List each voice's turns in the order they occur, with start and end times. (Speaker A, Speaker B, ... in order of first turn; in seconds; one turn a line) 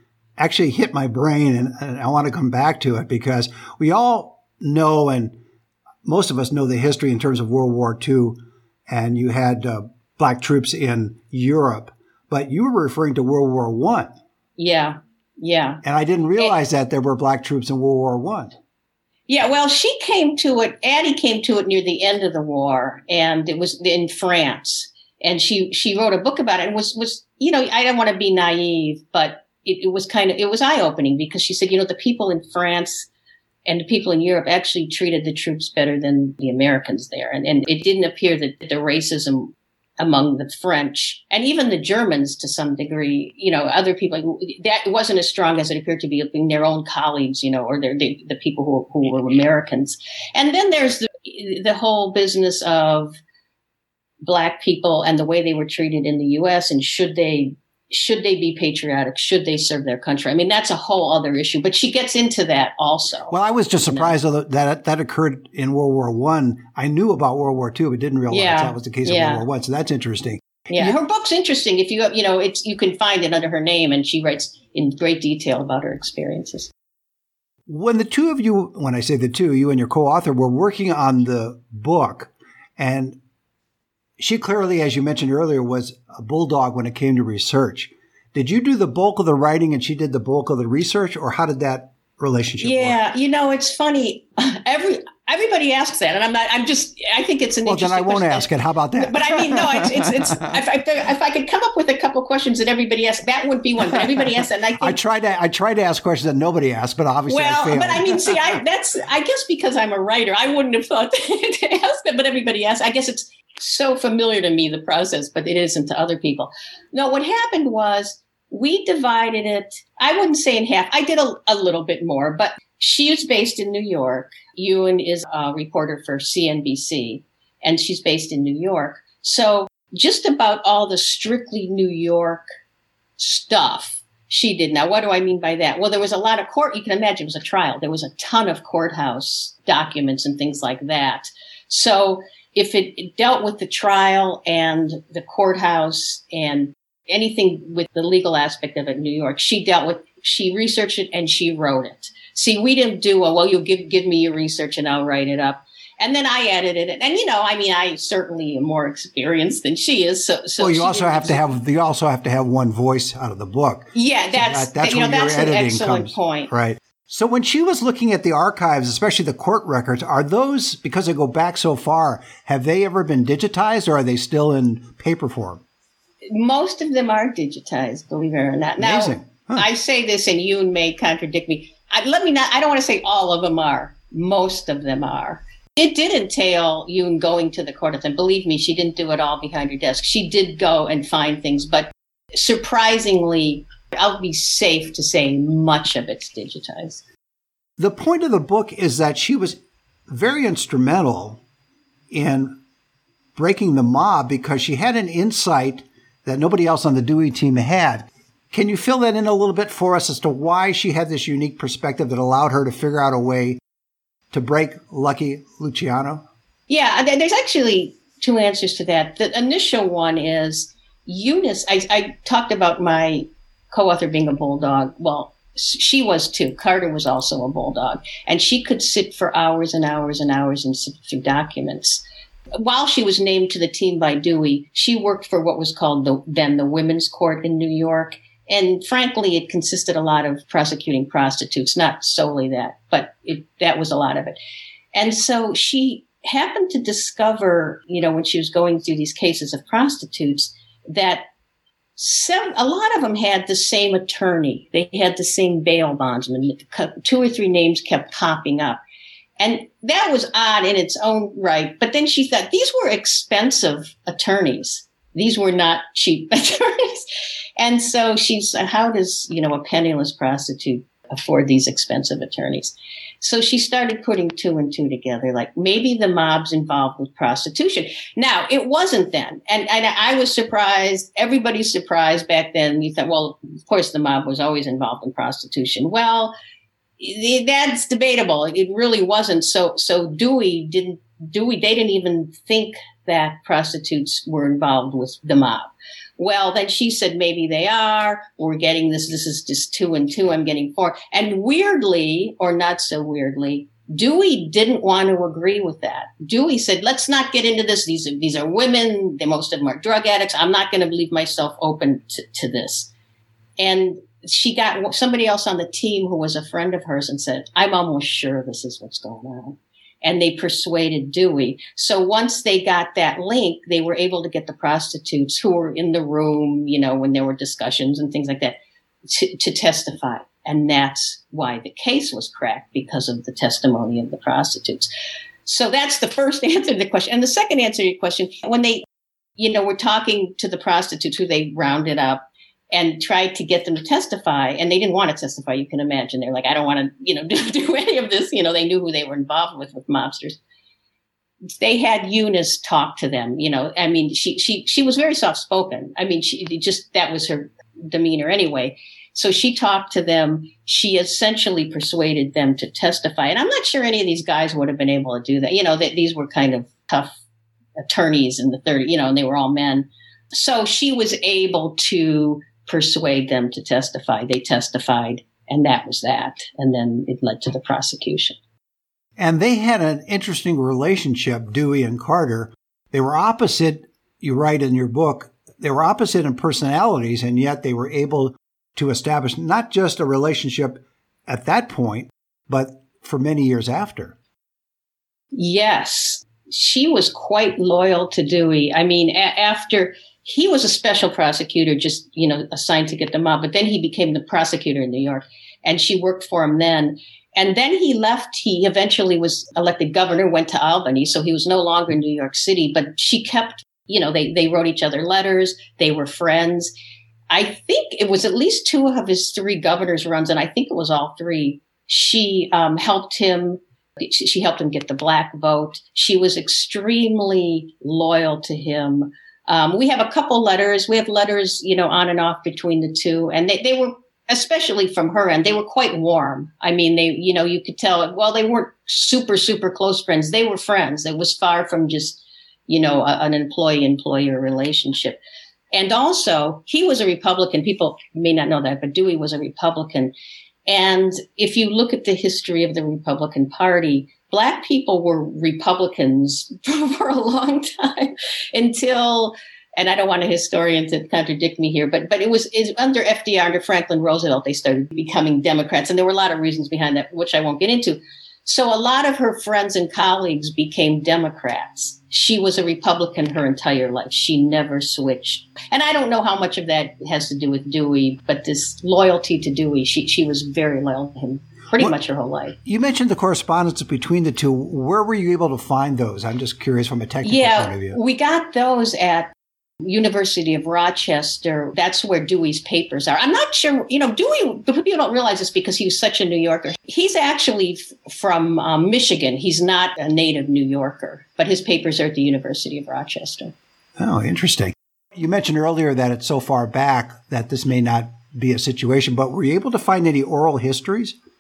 Speaker A: 0.4-5.4
Speaker A: 6.0-14.1
Speaker B: 14.6-15.8
Speaker A: 15.8-18.5
Speaker B: 19.3-33.1
Speaker B: 33.7-53.1
Speaker B: 54.2-63.3
Speaker A: 63.3-71.0
Speaker B: 63.9-64.1
Speaker B: 68.3-69.4
Speaker B: 70.7-76.7
Speaker A: 77.7-83.2
Speaker A: 84.2-93.0
Speaker B: 92.6-105.0
Speaker A: 97.7-100.5
Speaker A: 104.8-108.6
Speaker B: 107.3-132.4
Speaker B: 133.2-161.5
Speaker A: 160.6-175.6
Speaker B: 163.9-166.5
Speaker B: 176.3-197.0
Speaker A: 178.8-179.7
Speaker A: 197.8-201.4
Speaker A: 202.1-202.6
Speaker A: 203.4-213.6
Speaker A: 214.3-216.2
Speaker B: 216.7-232.0
Speaker B: 232.6-244.4
Speaker B: 244.9-251.2
Speaker B: 252.0-258.8
Speaker B: 259.4-286.3
Speaker B: 287.0-312.9
Speaker B: 313.6-334.9
Speaker B: 335.4-338.9
Speaker B: 339.4-342.2
Speaker B: 342.7-350.4
Speaker B: 351.5-367.2
Speaker B: 367.8-378.4
Speaker A: 379.2-394.2
Speaker B: 395.3-416.7
Speaker B: 417.3-445.2
Speaker B: 445.7-450.1
Speaker B: 450.7-482.6
Speaker A: 482.6-488.0
Speaker B: 487.2-503.5
Speaker A: 504.0-511.2